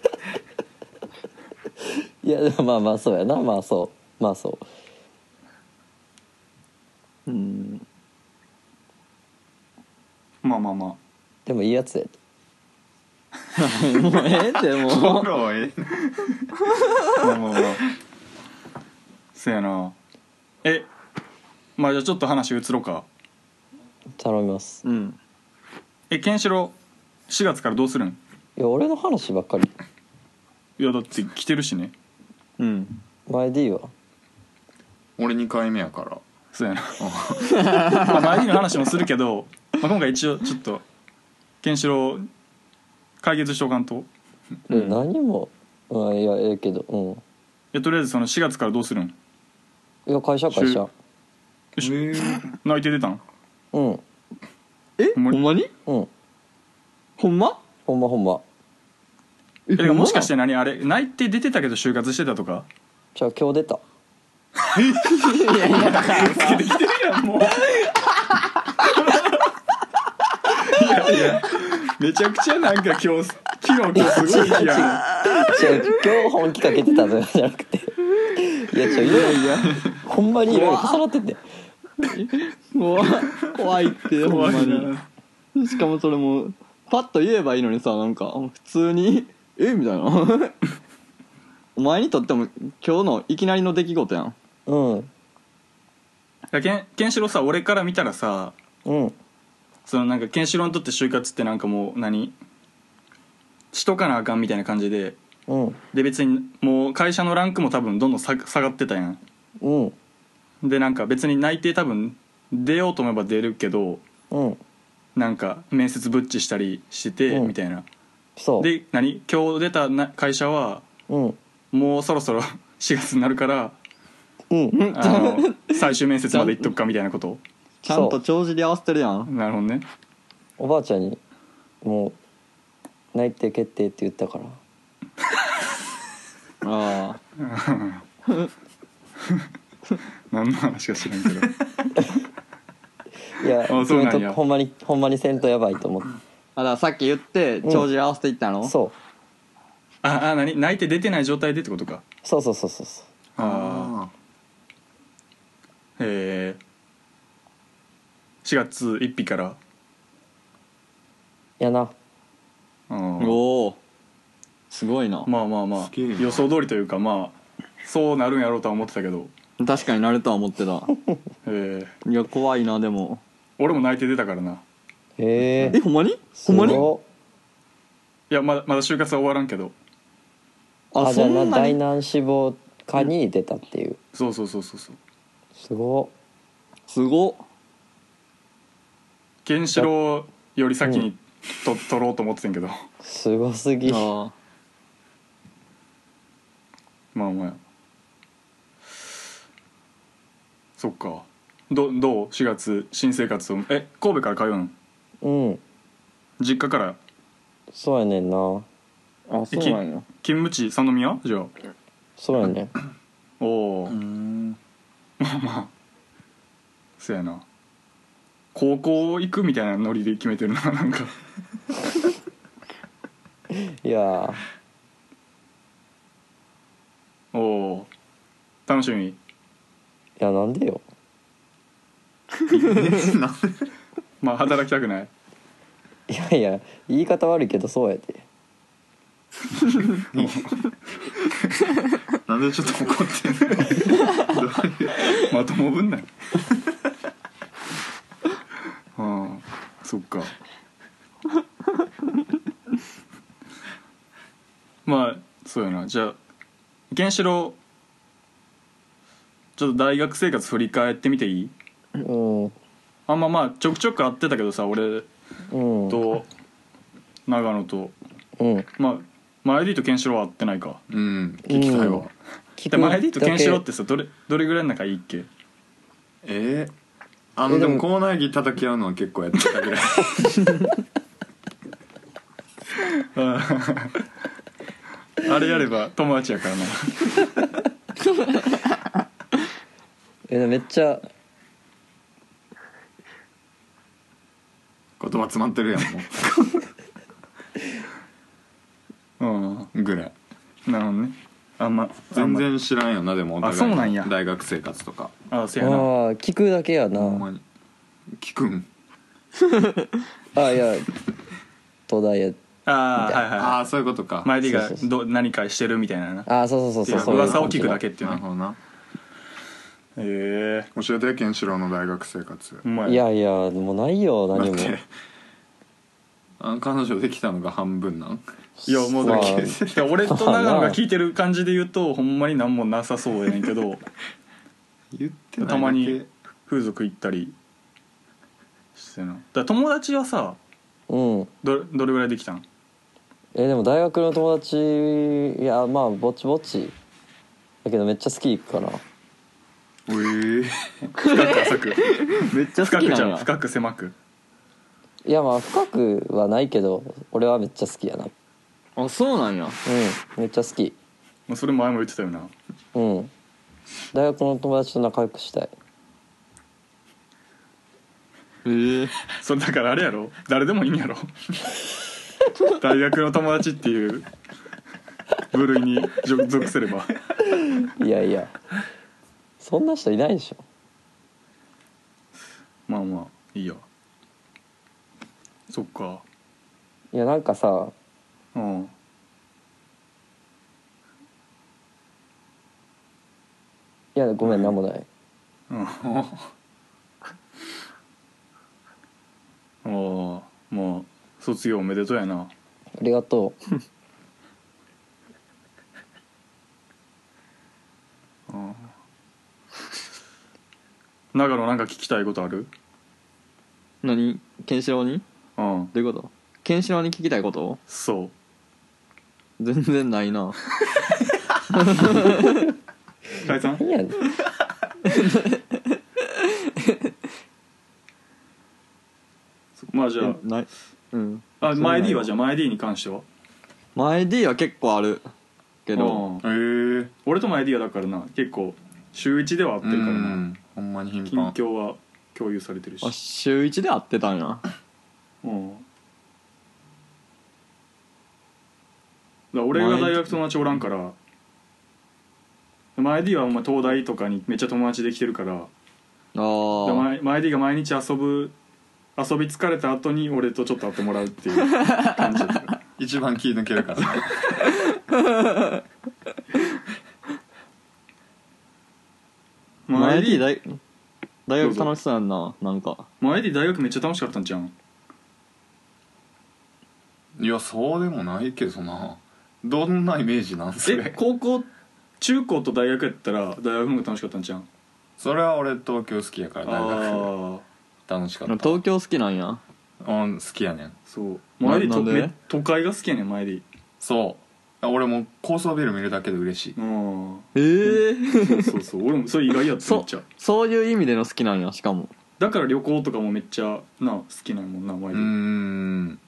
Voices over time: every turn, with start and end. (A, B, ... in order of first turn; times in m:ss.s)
0:02.2-0:04.6 A
0:07.3-0:07.8 B
0:10.4-0:11.0 C
0:11.5-0:12.2 A
0:13.6-0:15.3 B
0:14.8-0:16.1 D
0:17.2-0:17.8 C
0:19.3-0:20.0 C
0:21.8-0:23.1 C
0:24.2-0:24.8 A
0:24.8-0:25.2 B
0:26.1-0:26.8 C
0:27.3-0:28.2 C
0:28.6-0:29.7 A
0:30.8-0:31.9 C
0:32.6-0:33.0 B
0:33.3-0:33.9 A
0:35.2-0:36.2 D
0:36.5-0:37.0 C
0:37.0-0:37.8 D
0:37.5-0:40.8 C
0:37.6-0:38.1 B
0:41.6-0:42.3 C
0:43.2-0:44.1 C
0:44.7-0:47.2 A
0:47.7-0:49.1 C
0:50.1-0:50.9 A
0:50.5-0:50.8 C
0:51.8-0:53.2 C
0:51.8-0:52.4 D
0:53.7-0:54.0 A
0:55.0-0:55.7 B
0:55.2-0:55.4 C
0:57.2-0:57.6 B
0:57.9-0:58.4 A
0:59.7-1:00.3 B
0:59.8-1:02.7 C
1:03.2-1:03.8 A
1:04.8-1:05.2 D
1:05.1-1:06.6 B
1:05.6-1:07.9 C
1:10.6-1:15.0 C
1:13.9-1:21.4 A
1:15.2-1:15.7 B
1:18.8-1:19.9 B
1:20.5-1:21.0 B
1:22.0-1:24.9 B
1:24.2-1:25.0 C
1:25.6-1:30.6 B
1:31.8-1:34.4 B
1:34.7-1:35.1 A
1:36.5-1:38.6 C
1:38.9-1:39.2 A
1:39.9-1:42.4 C
1:43.7-1:45.2 C
1:45.5-1:45.8 A
1:45.9-1:49.2 C
1:49.6-1:50.0 A
1:50.6-1:54.0 C
1:54.3-1:54.6 A
1:55.2-1:57.9 C
1:58.4-1:58.7 A
1:58.6-2:00.9 C
2:01.1-2:01.4 A
2:01.7-2:03.8 C
2:04.5-2:04.8 A
2:04.7-2:06.7 B
2:04.9-2:07.4 C
2:07.8-2:09.3 B
2:07.9-2:08.2 A
2:09.3-2:09.8 C
2:10.6-2:11.2 A
2:11.8-2:12.2 A
2:13.1-2:14.6 A
2:16.6-2:17.2 B
2:17.4-2:18.0 C
2:20.3-2:21.6 C
2:23.4-2:26.1 A
2:23.7-2:24.4 C
2:26.6-2:28.8 B
2:28.6-2:28.9 A
2:30.0-2:32.0 C
2:32.2-2:33.1 A
2:33.4-2:33.9 C
2:33.4-2:34.1 D
2:36.0-2:36.6 C
2:38.4-2:39.6 C
2:41.6-2:41.9 A
2:42.9-2:43.4 C
2:43.2-2:43.8 B
2:44.7-2:45.3 B
2:45.3-2:49.3 C
2:45.8-2:46.4 D
2:49.6-2:50.9 B
2:51.4-2:51.9 C
2:52.0-2:53.2 B
2:53.6-2:54.6 C
2:55.2-2:55.8 A
2:55.4-2:55.8 D
2:55.7-2:56.9 B
2:56.4-2:57.0 A
2:58.3-2:59.7 C
3:00.9-3:01.8 B
3:01.0-3:04.0 A
3:04.1-3:05.0 C
3:05.6-3:06.1 A
3:06.9-3:07.4 B
3:09.4-3:12.8 C
3:13.0-3:14.1 A
3:13.9-3:14.3 B
3:17.1-3:17.6 C
3:20.8-3:24.7 C
3:25.2-3:25.6 A
3:26.4-3:27.0 C
3:27.7-3:28.7 A
3:29.3-3:30.1 B
3:29.5-3:31.5 C
3:32.2-3:32.7 A
3:33.4-3:34.0 C
3:33.9-3:34.6 D
3:35.2-3:35.7 C
3:37.0-3:37.4 C
3:38.5-3:41.1 C
3:43.5-3:44.4 A
3:47.3-3:47.9 C
3:48.7-3:49.2 C
3:50.2-3:50.8 A
3:52.5-3:53.7 D
3:54.2-3:55.1 C
3:56.1-3:58.2 A
4:00.0-4:00.7 D
4:02.2-4:05.3 D
4:05.1-4:06.1 C
4:09.0-4:10.3 C
4:14.9-4:16.2 C
4:16.9-4:17.6 C
4:19.6-4:21.5 C
4:22.0-4:22.6 A
4:23.1-4:25.1 C
4:25.5-4:26.0 A
4:25.9-4:26.3 C
4:27.3-4:28.0 C
4:28.4-4:28.7 A
4:28.8-4:30.8 C
4:30.9-4:32.1 D
4:31.5-4:33.6 A
4:32.7-4:35.3 C
4:36.2-4:36.7 D
4:37.4-4:40.6 D
4:37.5-4:37.8 A
4:42.9-4:44.0 C
4:45.2-4:47.3 C
4:50.3-4:51.1 A
4:55.0-4:56.6 D
4:59.2-4:59.7 C
4:59.7-5:00.1 D
5:00.7-5:02.5 C
5:02.1-5:05.1 D
5:03.4-5:04.1 C
5:05.3-5:05.9 C
5:05.6-5:07.3 A
5:07.0-5:07.4 D
5:08.2-5:08.7 D
5:09.4-5:09.9 B
5:10.4-5:10.9 A
5:11.9-5:12.4 A
5:12.7-5:13.6 C
5:13.0-5:13.2 A
5:13.4-5:14.4 D
5:14.2-5:16.3 C
5:14.4-5:14.8 A
5:16.3-5:17.8 A
5:16.8-5:18.2 C
5:16.9-5:18.6 D
5:20.0-5:20.7 C
5:20.8-5:22.6 D
5:22.6-5:23.0 C
5:22.8-5:24.8 A
5:24.3-5:24.8 D
5:26.4-5:28.2 D
5:28.6-5:30.8 A
5:28.7-5:33.8 C
5:29.0-5:29.9 D
5:34.9-5:36.1 D
5:35.4-5:37.4 C
5:38.8-5:40.4 C
5:40.9-5:41.3 A
5:41.4-5:42.4 C
5:43.4-5:46.7 A
5:47.6-5:48.8 A
5:49.9-5:50.6 D
5:50.8-5:53.9 C
5:51.0-5:53.3 B
5:55.0-5:58.1 A
5:58.8-5:59.6 B
5:59.6-6:00.8 A
6:01.3-6:02.3 C
6:02.8-6:03.1 A
6:03.9-6:05.5 A
6:08.4-6:08.9 B
6:09.2-6:11.1 C
6:12.5-6:14.1 C
6:15.3-6:16.9 C
6:17.4-6:18.3 A
6:19.4-6:20.4 A
6:22.7-6:23.6 C
6:25.5-6:26.0 C
6:26.9-6:27.7 A
6:28.4-6:28.7 C
6:34.0-6:34.9 A
6:35.5-6:35.8 C
6:35.8-6:36.3 D
6:39.6-6:42.3 C
6:42.8-6:43.4 A
6:48.3-6:48.7 C
6:51.1-6:52.5 C
6:53.8-6:55.0 B
6:55.4-6:55.7 C
6:55.7-6:57.6 B
6:57.7-6:58.1 C
6:59.4-7:00.4 B
7:01.5-7:02.5 B
7:03.2-7:03.6 C
7:03.3-7:04.0 A
7:04.8-7:06.9 B
7:09.6-7:10.2 C
7:10.0-7:12.1 B
7:11.4-7:13.0 C
7:13.8-7:15.1 B
7:15.7-7:16.1 B
7:15.8-7:16.3 C
7:16.2-7:16.9 D
7:17.0-7:20.2 C
7:19.6-7:21.4 D
7:21.1-7:22.9 C
7:22.8-7:24.4 B
7:25.2-7:25.6 C
7:29.3-7:31.0 C
7:29.5-7:30.2 B
7:32.8-7:35.5 C
7:36.2-7:36.9 B
7:36.6-7:38.3 C
7:39.0-7:42.6 C
7:41.6-7:41.9 B
7:42.8-7:44.4 D
7:44.9-7:45.6 B
7:49.7-7:50.3 C
7:49.7-7:50.6 B
7:51.3-7:52.9 B
7:51.4-7:51.7 C
7:53.0-7:54.5 C
7:57.2-8:01.0 D
8:00.6-8:01.5 C
8:02.0-8:04.5 C
8:05.0-8:07.1 D
8:06.4-8:07.4 C
8:07.9-8:08.6 D
8:08.3-8:09.4 B
8:09.8-8:10.8 D
8:10.9-8:13.4 C
8:11.4-8:12.1 B
8:13.8-8:16.6 D
8:16.6-8:20.0 C
8:17.4-8:18.5 B
8:19.6-8:21.9 B
8:22.2-8:25.1 C
8:24.9-8:26.0 D